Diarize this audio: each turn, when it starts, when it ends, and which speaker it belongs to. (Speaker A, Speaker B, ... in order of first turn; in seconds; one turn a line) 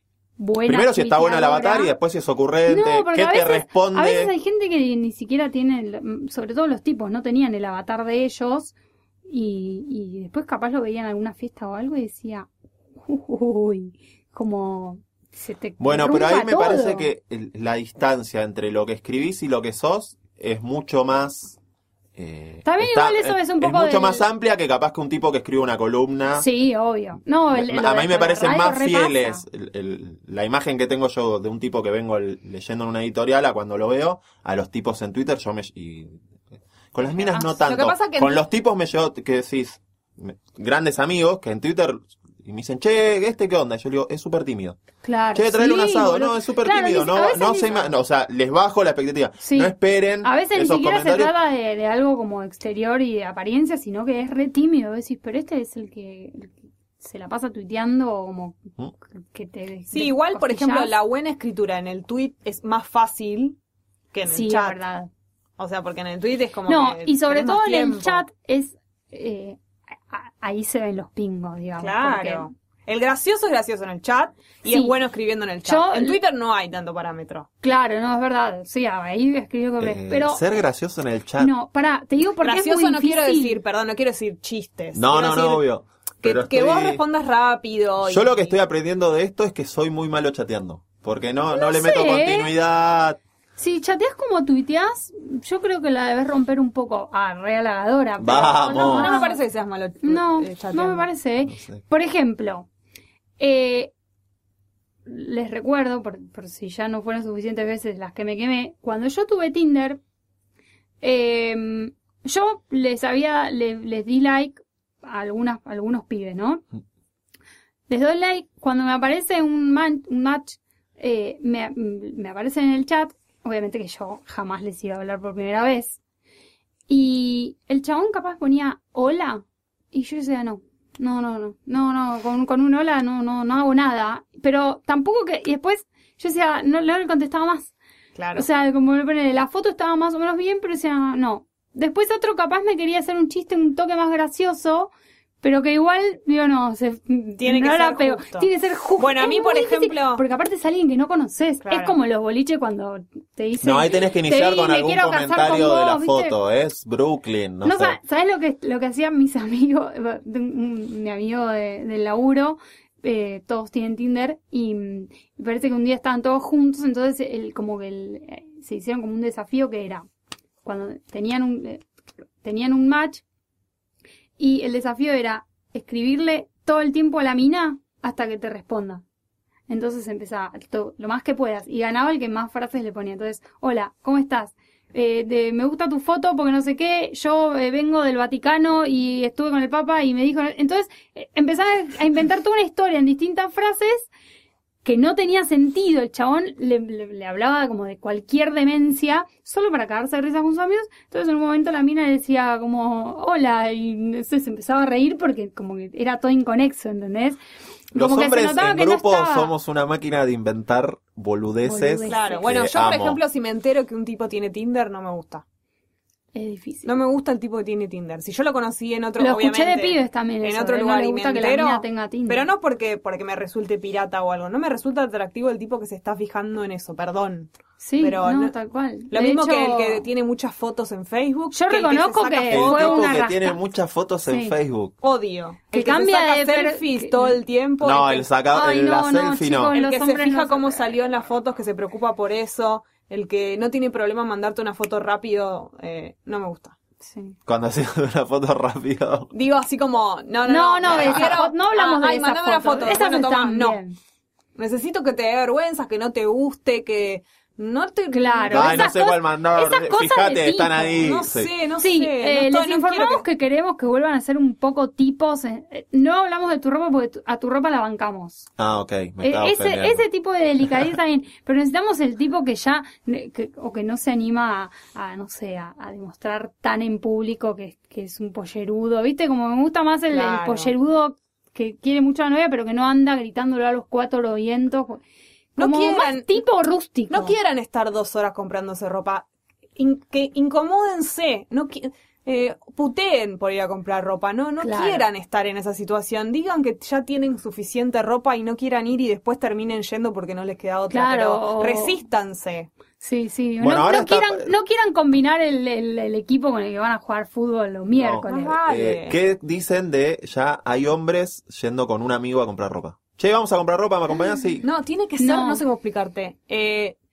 Speaker A: 0.4-1.9
Speaker B: 0.7-4.3
Speaker A: 2.7-8.8
Speaker A: 9.3-12.5
Speaker A: 13.1-17.1
Speaker B: 15.8-21.6
Speaker B: 22.2-26.5
Speaker A: 22.6-24.3
Speaker A: 26.4-29.4
Speaker B: 27.5-36.2
Speaker B: 36.9-44.8
Speaker A: 37.0-37.6
Speaker C: 37.6-38.4
Speaker A: 45.0-47.9
Speaker B: 45.3-51.3
Speaker A: 49.4-60.9
Speaker C: 59.9-63.6
Speaker C: 64.1-64.8
Speaker A: 64.3-65.1
Speaker C: 65.6-68.2
Speaker A: 66.7-69.6
Speaker A: 70.1-72.5
Speaker C: 71.8-77.5
Speaker A: 74.7-74.9
Speaker A: 75.7-76.2
Speaker A: 77.6-80.5
Speaker B: 79.8-81.5
Speaker A: 81.4-83.6
Speaker C: 82.4-85.7
Speaker B: 84.9-87.0
Speaker C: 86.2-88.5
Speaker B: 88.0-93.2
Speaker A: 91.5-92.5
Speaker A: 93.6-99.4
Speaker B: 98.2-99.1
Speaker C: 98.7-101.1
Speaker A: 100.0-102.7
Speaker B: 101.5-101.8
Speaker A: 103.4-103.9
Speaker A: 105.1-110.0
Speaker A: 111.0-116.7
Speaker A: 117.9-126.0
Speaker A: 126.9-137.7
Speaker C: 138.2-138.5
Speaker A: 138.3-156.4
Speaker C: 147.4-150.2
Speaker C: 151.7-152.0
Speaker B: 153.6-158.0
Speaker A: 157.6-170.1
Speaker A: 170.6-171.8
Speaker A: 172.4-173.2
Speaker A: 174.4-179.0
Speaker A: 179.7-194.1
Speaker A: 194.8-207.4
Speaker A: 207.9-209.5
Speaker B: 207.9-213.2
Speaker A: 211.7-212.5
Speaker C: 212.1-215.4
Speaker A: 216.3-216.9
Speaker C: 216.8-228.5
Speaker A: 219.2-222.5
Speaker A: 227.8-230.1
Speaker C: 229.1-233.1
Speaker A: 231.5-233.6
Speaker B: 232.5-234.9
Speaker A: 234.3-234.6
Speaker C: 235.0-238.3
Speaker A: 235.7-237.4
Speaker B: 237.8-239.8
Speaker A: 238.5-240.8
Speaker C: 239.7-246.8
Speaker A: 247.0-247.4
Speaker B: 247.5-249.3
Speaker C: 249.3-253.8
Speaker A: 250.5-254.0
Speaker B: 250.9-251.4
Speaker C: 254.6-258.9
Speaker A: 258.1-261.1
Speaker B: 258.5-261.5
Speaker C: 261.0-263.2
Speaker A: 261.8-268.5
Speaker B: 268.6-270.0
Speaker A: 269.2-285.0
Speaker C: 280.1-280.7
Speaker A: 285.6-287.4
Speaker C: 285.6-286.4
Speaker C: 287.1-289.3
Speaker C: 289.8-302.7
Speaker A: 294.6-295.1
Speaker A: 300.9-302.0
Speaker A: 303.0-308.6
Speaker B: 303.6-304.5
Speaker B: 307.9-314.6
Speaker C: 308.3-309.2
Speaker C: 314.6-317.0
Speaker A: 315.2-315.6